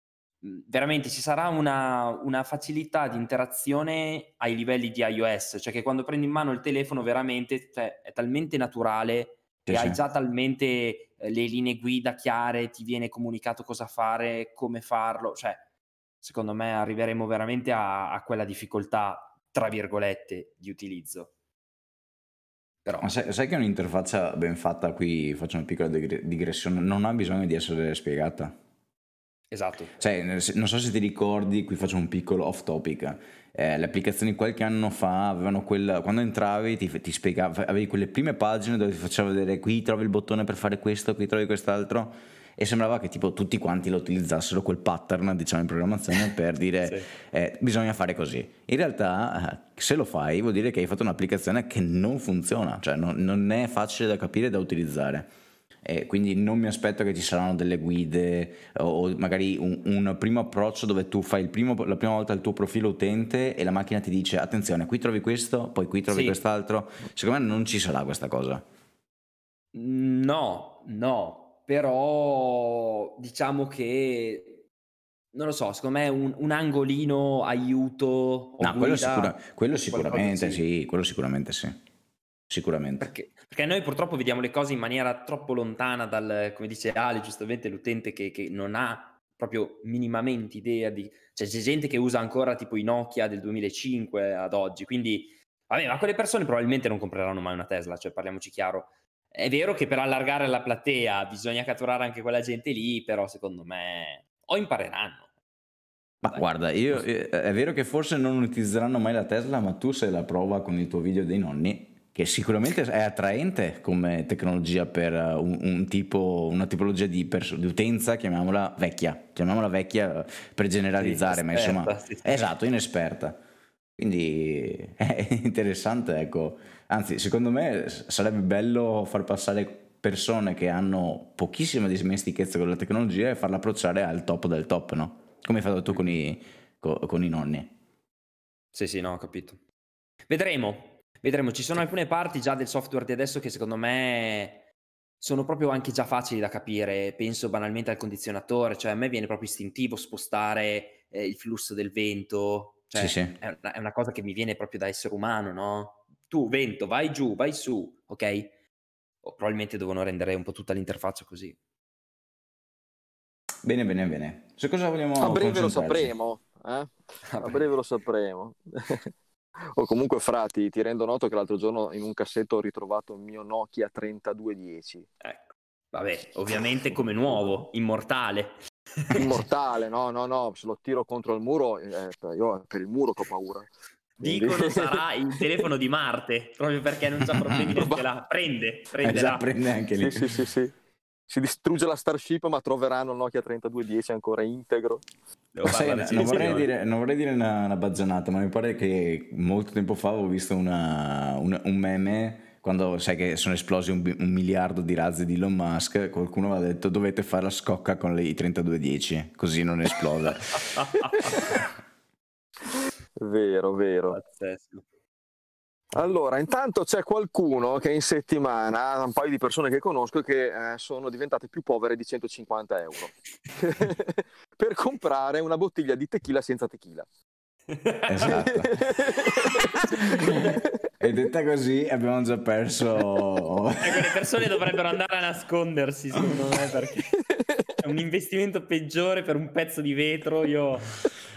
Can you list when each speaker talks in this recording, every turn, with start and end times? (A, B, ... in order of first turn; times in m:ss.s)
0:00.4-0:15.6 A
0:09.7-0:10.0 B
0:16.2-0:21.3 A
0:22.8-0:23.1 A
0:23.0-0:28.5 B
0:29.5-0:30.0 A
0:30.0-0:55.3 B
0:55.8-1:08.6 B
1:06.1-1:06.4 A
1:09.7-1:14.6 A
1:15.3-1:20.6 A
1:18.6-1:21.8 B
1:22.5-1:23.1 B
1:23.0-1:45.3 A
1:46.2-2:03.4 B
2:01.0-2:02.4 A
2:04.0-2:17.7 B
2:18.7-2:19.6 A
2:20.3-2:24.6 A
2:25.2-2:38.5 A
2:32.9-2:33.3 B
2:39.2-2:41.6 A
2:43.6-2:46.1 B
2:45.2-2:49.1 C
2:47.3-2:47.6 A
2:49.7-2:55.1 C
2:55.2-2:59.4 A
2:59.1-3:03.7 C
3:04.2-3:09.5 A
3:04.2-3:05.7 C
3:07.3-3:07.9 B
3:09.0-3:10.5 B
3:10.0-3:10.7 C
3:11.3-3:15.0 C
3:15.5-3:16.7 A
3:15.6-3:30.8 B
3:30.7-3:31.4 A
3:33.2-3:34.2 C
3:34.1-3:34.8 A
3:35.9-3:47.1 C
3:47.7-3:48.4 A
3:48.1-3:48.7 B
3:48.2-3:50.6 C
3:50.3-3:50.6 A
3:51.0-3:54.4 B
3:53.8-3:57.2 A
3:57.4-3:57.7 C
3:57.8-4:01.0 A